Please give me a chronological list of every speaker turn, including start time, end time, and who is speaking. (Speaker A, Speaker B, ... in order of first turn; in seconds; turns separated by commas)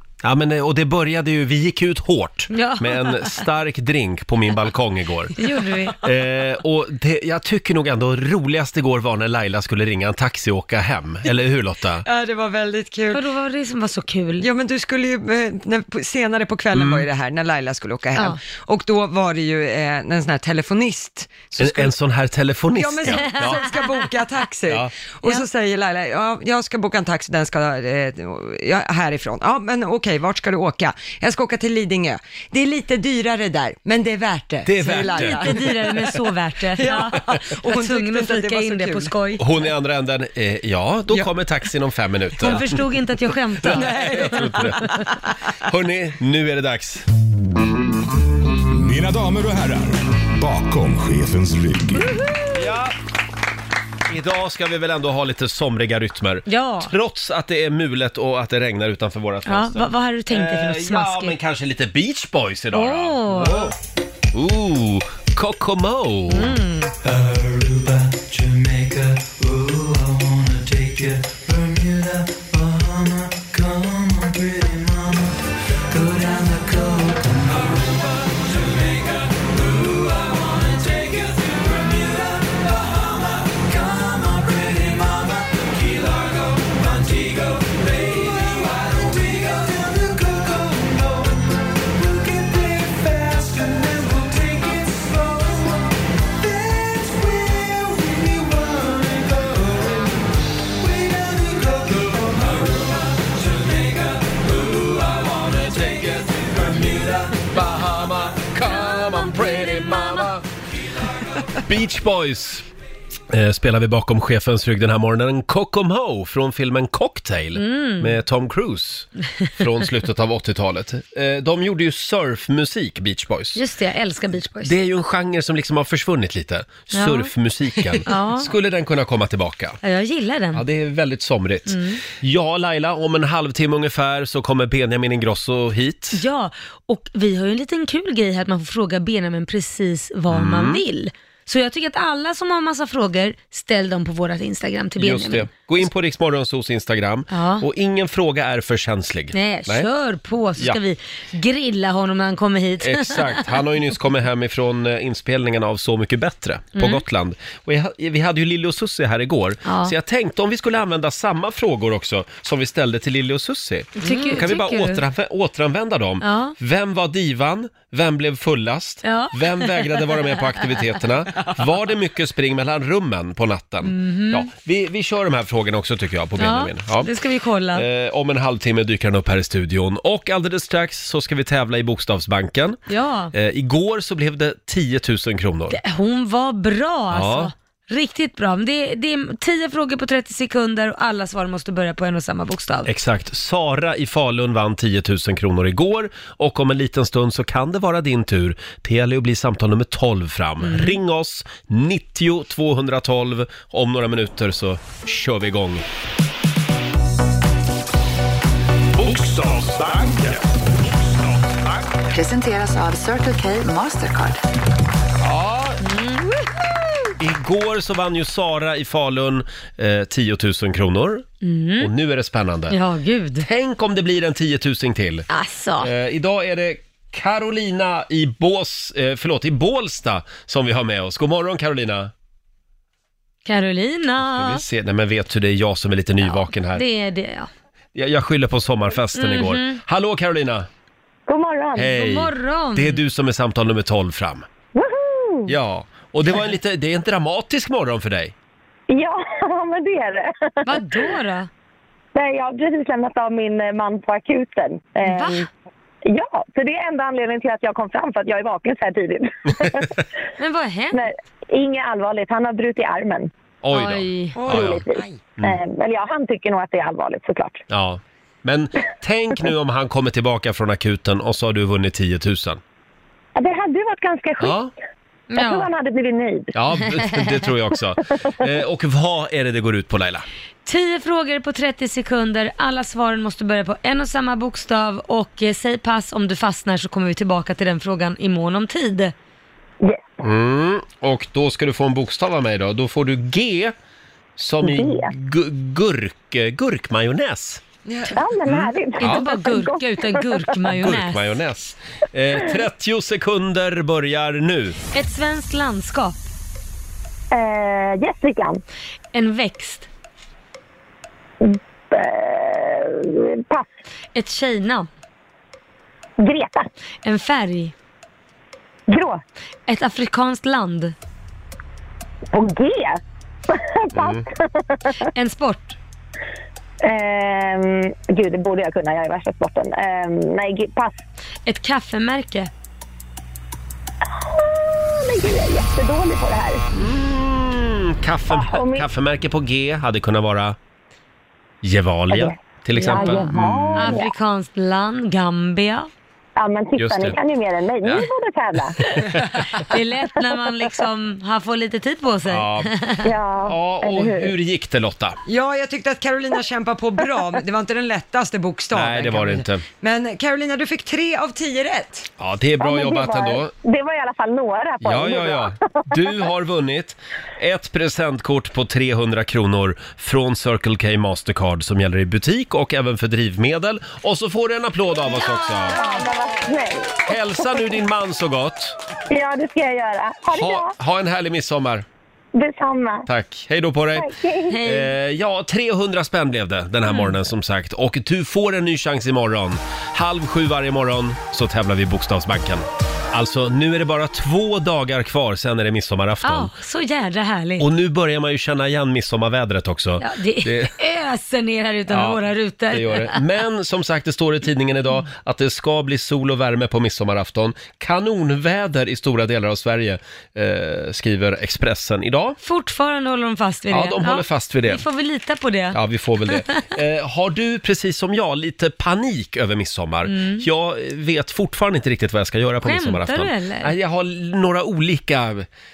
Speaker A: 0.2-5.3, Speaker B: 2.5-3.4, Speaker B: 5.4-6.0, Speaker A: 6.0-12.0, Speaker C: 12.0-13.2, Speaker B: 13.1-14.5, Speaker C: 14.4-21.9, Speaker A: 16.7-17.1, Speaker A: 21.6-23.7, Speaker C: 22.7-36.2, Speaker B: 23.1-23.8, Speaker A: 34.6-35.7, Speaker B: 34.9-39.5, Speaker C: 36.8-39.1, Speaker A: 39.4-42.7, Speaker B: 42.4-44.2, Speaker A: 43.6-45.0, Speaker C: 43.7-45.2, Speaker A: 45.6-47.0, Speaker D: 48.7-52.1, Speaker A: 52.5-52.9, Speaker A: 54.1-63.7, Speaker B: 56.5-56.9, Speaker B: 59.5-61.3, Speaker B: 62.7-63.7, Speaker A: 64.3-66.5, Speaker B: 66.3-66.9, Speaker E: 67.0-75.3, Speaker E: 75.9-95.9, Speaker E: 96.4-100.2, Speaker E: 100.8-107.4, Speaker A: 105.6-106.0, Speaker A: 107.3-110.4, Speaker B: 109.4-110.2, Speaker A: 111.6-112.7, Speaker A: 113.3-123.6, Speaker B: 117.5-118.2, Speaker B: 123.5-124.7, Speaker A: 124.6-129.8, Speaker B: 126.9-128.5, Speaker B: 129.8-130.6, Speaker A: 130.5-136.2, Speaker B: 131.7-132.0, Speaker B: 136.1-145.5, Speaker A: 140.3-140.8, Speaker A: 145.0-149.9, Speaker B: 147.3-147.6, Speaker B: 149.3-153.4, Speaker A: 152.8-177.1, Speaker B: 156.8-157.0, Speaker B: 159.7-159.9, Speaker B: 164.0-165.0, Speaker B: 166.2-166.6, Speaker B: 169.0-170.3, Speaker B: 173.8-174.4, Speaker B: 176.4-177.8, Speaker A: 177.7-182.8, Speaker B: 182.9-183.3, Speaker A: 183.3-185.8, Speaker B: 185.7-192.9, Speaker A: 187.1-187.5, Speaker A: 192.8-205.8, Speaker B: 200.6-201.0, Speaker D: 209.0-210.5, Speaker D: 211.0-211.8, Speaker F: 212.1-214.4, Speaker A: 215.2-215.8, Speaker B: 215.8-216.4, Speaker A: 217.2-221.3, Speaker B: 221.4-221.9, Speaker A: 221.8-222.8, Speaker B: 222.7-223.4, Speaker A: 223.4-225.3, Speaker B: 225.3-225.8, Speaker A: 225.8-232.1, Speaker B: 233.4-234.6, Speaker A: 234.2-236.8, Speaker B: 236.2-237.5, Speaker A: 237.9-240.7, Speaker B: 239.2-239.8, Speaker G: 241.3-241.9, Speaker A: 241.8-244.4, Speaker B: 241.9-243.0, Speaker G: 244.7-245.5, Speaker A: 245.5-248.3, Speaker G: 248.9-251.0, Speaker B: 250.6-251.5, Speaker G: 252.1-255.4, Speaker B: 255.0-255.4, Speaker G: 256.0-259.9, Speaker B: 260.4-261.1, Speaker G: 260.9-263.3, Speaker A: 263.6-264.8, Speaker B: 263.7-264.4, Speaker C: 264.3-265.2, Speaker G: 264.5-267.6, Speaker A: 267.7-272.6, Speaker G: 273.4-274.6, Speaker A: 274.4-274.7, Speaker B: 275.3-275.7, Speaker G: 275.4-276.5, Speaker A: 276.5-280.2, Speaker B: 280.6-289.1, Speaker G: 289.8-290.1, Speaker A: 290.2-293.7, Speaker A: 294.4-297.6, Speaker G: 294.6-295.1, Speaker C: 297.9-298.2, Speaker G: 298.1-300.3, Speaker A: 298.5-299.3, Speaker B: 299.0-301.3, Speaker A: 300.7-304.8, Speaker B: 304.9-306.2, Speaker G: 307.3-308.6, Speaker B: 309.1-309.9, Speaker G: 311.4-313.7, Speaker B: 314.1-314.9, Speaker G: 316.2-316.7, Speaker B: 317.0-317.7, Speaker G: 318.9-319.2, Speaker B: 319.7-320.9, Speaker G: 322.3-325.0, Speaker A: 323.9-324.2, Speaker B: 325.1-325.8, Speaker G: 326.8-331.0, Speaker B: 331.4-332.5, Speaker G: 334.2-336.6, Speaker A: 336.7-340.6, Speaker G: 338.3-338.9, Speaker A: 341.6-344.0, Speaker G: 342.1-344.1, Speaker B: 342.7-345.9, Speaker G: 346.4-349.1, Speaker A: 346.8-347.2, Speaker A: 347.8-348.1, Speaker A: 348.8-349.6, Speaker B: 349.7-353.1, Speaker A: 352.3-352.7, Speaker G: 353.0-354.3, Speaker A: 353.4-355.2, Speaker C: 355.2-362.1, Speaker A: 358.7-359.6, Speaker A: 362.2-363.5, Speaker G: 362.6-365.5, Speaker A: 364.8-375.8, Speaker B: 375.1-376.1, Speaker G: 375.8-377.6, Speaker A: 377.0-378.7, Speaker G: 379.1-380.7, Speaker A: 380.3-381.8, Speaker G: 382.3-383.1, Speaker A: 383.1-384.1, Speaker G: 383.9-384.6, Speaker B: 384.5-384.9, Speaker A: 384.6-396.5, Speaker B: 386.9-387.1, Speaker B: 396.2-397.6, Speaker A: 397.6-400.7, Speaker B: 400.0-403.2, Speaker A: 401.9-412.4, Speaker B: 412.4-415.8, Speaker A: 413.7-414.8, Speaker A: 415.7-425.4, Speaker B: 420.1-420.4, Speaker B: 422.6-423.7